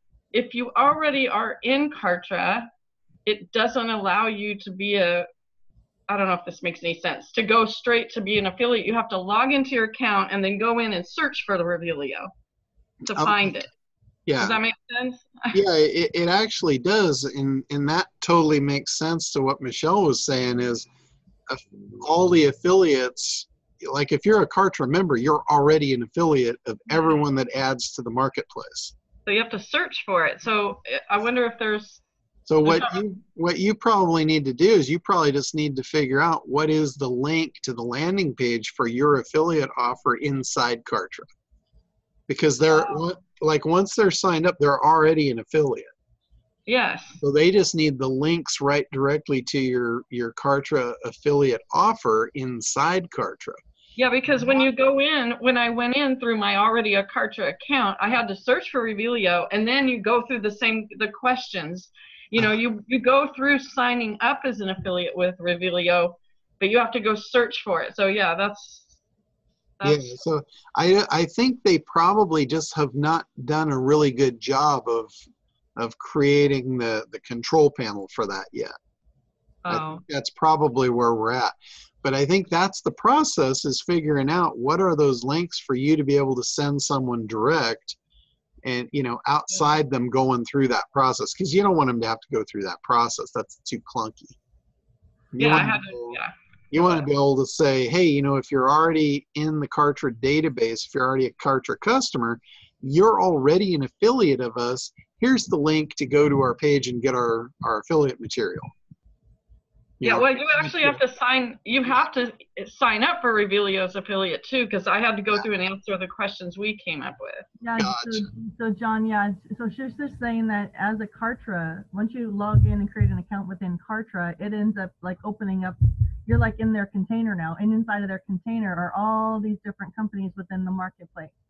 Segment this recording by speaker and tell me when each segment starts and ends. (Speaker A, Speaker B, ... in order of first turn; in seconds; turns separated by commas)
Speaker A: 0.3-2.7, Speaker A: 3.2-5.3, Speaker A: 6.1-12.3, Speaker A: 13.0-13.7, Speaker B: 13.1-13.6, Speaker B: 14.3-14.6, Speaker A: 14.4-15.6, Speaker B: 15.5-20.9, Speaker B: 21.5-28.9, Speaker A: 29.3-32.0, Speaker B: 32.5-41.2, Speaker A: 32.6-33.0, Speaker B: 42.3-45.9, Speaker A: 42.7-43.0, Speaker A: 46.7-47.2, Speaker B: 47.2-53.6, Speaker A: 54.0-69.0, Speaker A: 69.8-70.2, Speaker B: 69.8-75.1, Speaker B: 75.8-78.7, Speaker A: 79.6-80.0, Speaker B: 79.7-88.0, Speaker B: 88.6-94.4, Speaker B: 95.3-96.2, Speaker A: 95.4-97.0, Speaker B: 96.7-108.7, Speaker B: 110.0-111.0, Speaker A: 110.0-117.5, Speaker C: 117.6-131.3, Speaker B: 117.8-118.3